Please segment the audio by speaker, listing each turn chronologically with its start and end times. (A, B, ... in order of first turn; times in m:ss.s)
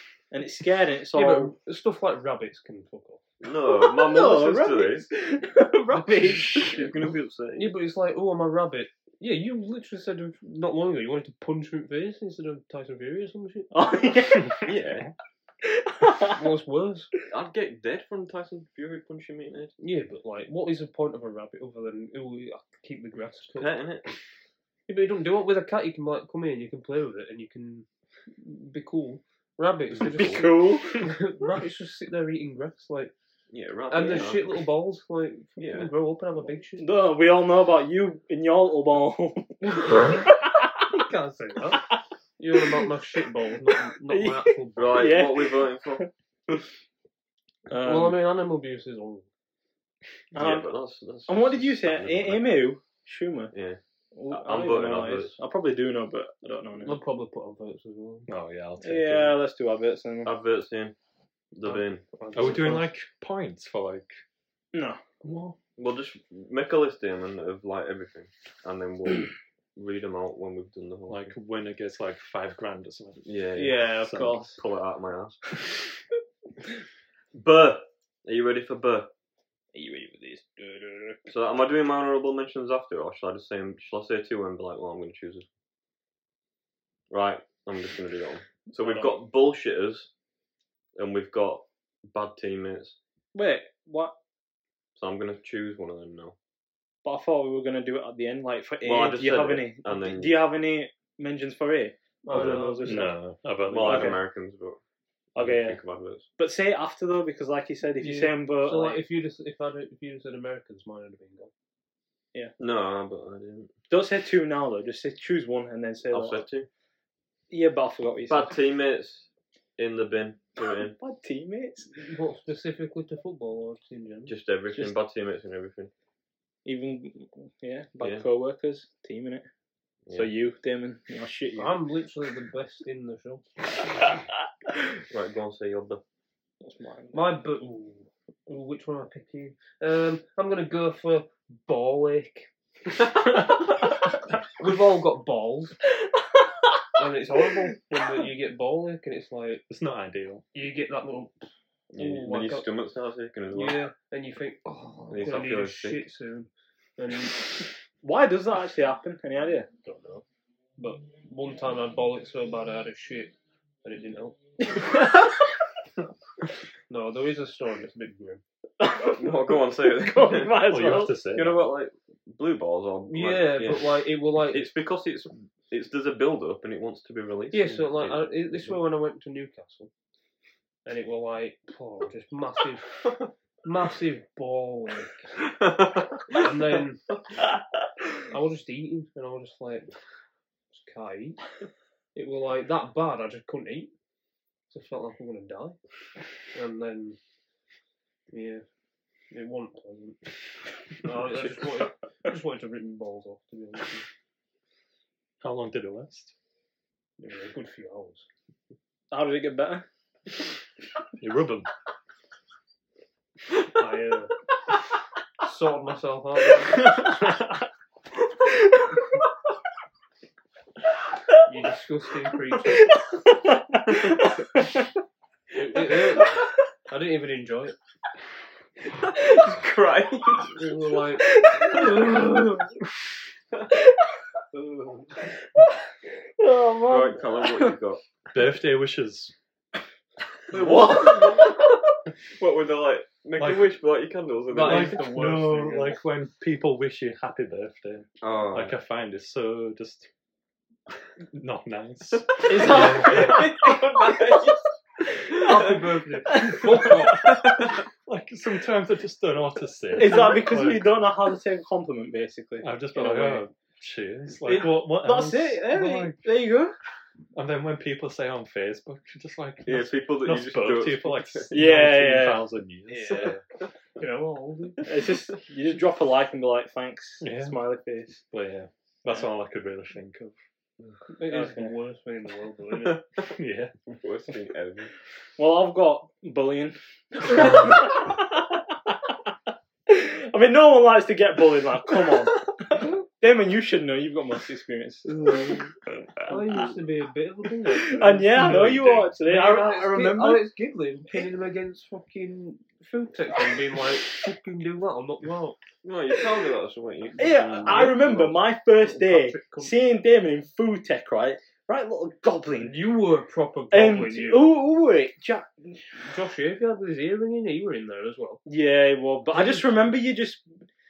0:00.3-0:01.5 A
0:01.1-0:03.2 B
0:03.4-0:05.1 C
0:03.7-0:06.9 A
0:06.0-0:06.3 B
0:06.4-0:07.8 C
0:07.5-0:14.0 B
0:13.7-0:14.8 A
0:14.6-0:15.1 C
0:15.6-0:16.4 A
0:16.3-0:17.1 B
0:17.3-0:19.7 C
0:19.8-0:23.7 B
0:23.5-0:24.1 C
0:24.9-0:33.1 B
0:30.1-0:31.1 A
0:30.1-0:30.4 C
0:33.5-0:34.6 C
0:33.9-0:36.9 B
0:35.6-0:35.9 C
0:36.8-0:40.9 A
0:40.9-0:45.2 B
0:44.1-0:46.5 A
0:44.8-0:46.1 C
0:47.7-0:48.2 A
0:47.8-0:49.3 B
0:50.3-0:50.7 A
0:50.3-0:52.6 C
0:51.3-0:53.5 A
0:53.5-0:55.4 C
0:54.1-0:57.0 A
0:56.8-0:58.3 B
0:58.3-0:59.4 D
0:58.8-1:00.3 A
1:00.2-1:00.9 C
1:01.5-1:02.0 C
1:01.6-1:02.8 B
1:02.3-1:04.2 D
1:04.7-1:05.0 A
1:05.2-1:05.6 D
1:05.8-1:11.3 C
1:11.1-1:13.2 D
1:13.2-1:13.8 C
1:13.6-1:14.6 A
1:13.8-1:14.4 D
1:14.5-1:15.6 C
1:17.3-1:19.1 C
1:19.7-1:21.2 A
1:21.3-1:25.4 C
1:27.1-1:30.1 C
1:28.7-1:29.2 A
1:31.0-1:33.0 C
1:33.3-1:34.1 A
1:35.0-1:36.3 C
1:37.0-1:43.2 A
1:38.8-1:40.4 C
1:42.2-1:43.1 B
1:42.3-1:42.6 C
1:42.8-1:44.2 D
1:43.7-1:44.8 C
1:43.7-1:44.2 A
1:45.3-1:45.8 A
1:45.4-1:46.2 C
1:46.4-1:49.0 A
1:48.0-1:51.5 B
1:52.6-1:53.7 C
1:53.9-1:56.4 A
1:56.1-1:56.7 C
1:57.5-1:58.5 A
1:58.3-2:01.0 C
2:01.0-2:01.9 A
2:01.9-2:04.3 B
2:04.3-2:05.9 C
2:04.7-2:05.0 A
2:06.6-2:09.4 A
2:10.1-2:10.3 C
2:10.1-2:11.8 A
2:11.6-2:13.4 B
2:15.1-2:16.0 C
2:16.6-2:17.3 A
2:17.1-2:22.5 B
2:24.6-2:25.8 B
2:27.0-2:29.6 B
2:29.7-2:30.4 D
2:30.5-2:32.7 B
2:31.9-2:33.8 C
2:33.5-2:37.5 B
2:35.1-2:36.0 C
2:38.0-2:39.7 A
2:39.8-2:40.2 B
2:40.8-2:44.4 B
2:46.9-2:48.4 B
2:48.8-2:51.2 A
2:49.1-2:58.8 C
2:50.6-2:51.7 D
2:53.1-2:54.7 B
2:57.5-2:59.9 B
3:00.8-3:05.2 B
3:05.6-3:06.3 C
3:06.3-3:07.0 B
3:08.3-3:09.9 B
3:10.7-3:11.4 B
3:12.1-3:13.9 B
3:14.7-3:15.8 B
3:16.5-3:17.2 B
3:18.3-3:18.6 B
3:19.3-3:20.2 B
3:21.0-3:24.0 B
3:25.4-3:26.3 D
3:27.2-3:28.2 B
3:29.1-3:29.8 A
3:31.2-3:31.7 D
3:33.7-3:34.3 B
3:35.4-3:37.1 B
3:41.4-3:42.9 B
3:42.8-3:44.8 A
3:45.5-3:47.7 B
3:49.0-3:50.6 C
3:50.5-3:52.6 B
3:51.3-3:52.4 A
3:56.4-3:57.7 A
3:56.9-3:58.0 C
3:58.3-3:59.3 D
4:00.5-4:01.8 C
4:00.5-4:01.4 B
4:00.8-4:01.6 A
4:02.4-4:05.0 C
4:03.4-4:03.7 D
4:04.5-4:06.0 B
4:04.6-4:10.1 D
4:08.2-4:08.8 C
4:11.2-4:13.5 D
4:12.4-4:14.6 C
4:12.5-4:14.5 A
4:15.3-4:15.6 A
4:15.3-4:17.3 B
4:15.4-4:15.7 C
4:16.2-4:17.2 A
4:16.8-4:21.0 D
4:17.1-4:17.8 C
4:19.9-4:23.4 A
4:22.6-4:26.2 D
4:24.4-4:26.7 A
4:27.3-4:33.4 D
4:29.6-4:31.6 C
4:31.5-4:33.3 A
4:34.0-4:34.8 B
4:34.8-4:38.2 A
4:37.2-4:37.6 D
4:38.3-4:40.4 D
4:41.1-4:43.0 B
4:41.3-4:41.7 A
4:42.8-4:43.2 C
4:43.3-4:43.7 D
4:43.8-4:44.9 C
4:45.4-4:49.3 A
4:49.9-4:55.6 A
4:55.1-4:55.7 B
4:56.2-5:05.6 B
4:56.3-4:56.6 A
4:57.6-5:00.5 A
4:58.4-4:59.1 D
5:05.8-5:08.3 C
5:07.2-5:12.8 A
5:07.6-5:08.2 B
5:08.7-5:09.7 B
5:12.6-5:14.5 B
5:13.7-5:15.8 A
5:16.0-5:18.4 B
5:18.4-5:20.5 A
5:19.3-5:19.9 B